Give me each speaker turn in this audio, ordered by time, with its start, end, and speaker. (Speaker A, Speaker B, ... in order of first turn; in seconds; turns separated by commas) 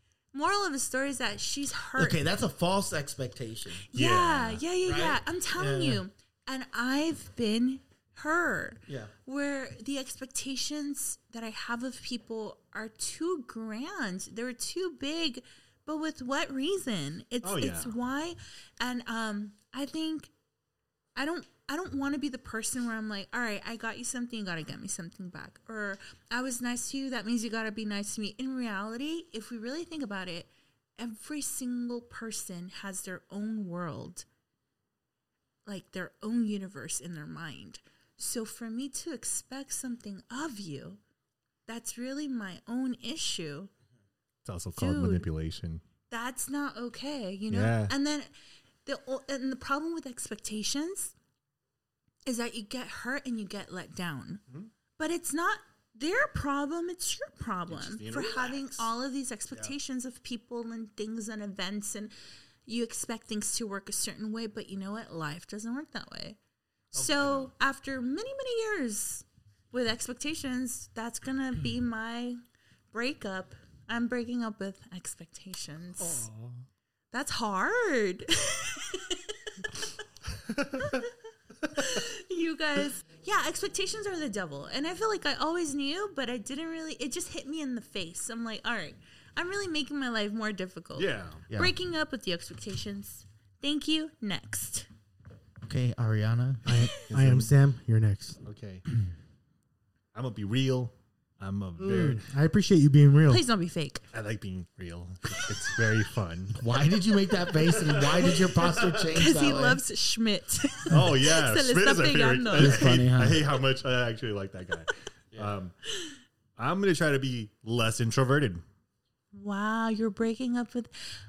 Speaker A: 0.3-2.2, Speaker B: 2.0-3.8, Speaker A: 3.9-20.3, Speaker C: 3.9-4.6, Speaker B: 4.8-6.0, Speaker B: 8.9-9.1, Speaker C: 17.4-17.9, Speaker A: 21.1-34.2, Speaker A: 35.6-41.0, Speaker A: 41.7-43.7, Speaker C: 44.4-45.8, Speaker A: 44.8-45.3, Speaker A: 46.1-48.3, Speaker C: 47.5-47.9, Speaker A: 48.8-51.1, Speaker A: 52.2-54.4, Speaker A: 55.0-62.1, Speaker C: 57.7-58.9, Speaker A: 62.6-66.4, Speaker A: 66.9-72.4, Speaker C: 67.0-67.5, Speaker A: 72.9-76.2, Speaker C: 76.0-76.6, Speaker A: 77.1-79.9, Speaker C: 80.5-81.0, Speaker A: 80.8-81.1, Speaker A: 81.7-94.9, Speaker C: 91.0-91.4, Speaker B: 91.5-91.7, Speaker B: 95.6-96.7, Speaker D: 96.7-98.4, Speaker C: 97.0-97.5, Speaker C: 98.4-98.8, Speaker C: 100.1-102.2, Speaker D: 101.8-103.4, Speaker A: 103.3-104.0, Speaker C: 104.1-106.6, Speaker B: 106.6-109.8, Speaker C: 107.8-109.0, Speaker A: 109.1-113.0, Speaker C: 110.9-115.7, Speaker B: 112.5-113.4, Speaker C: 116.6-118.6, Speaker A: 119.3-120.9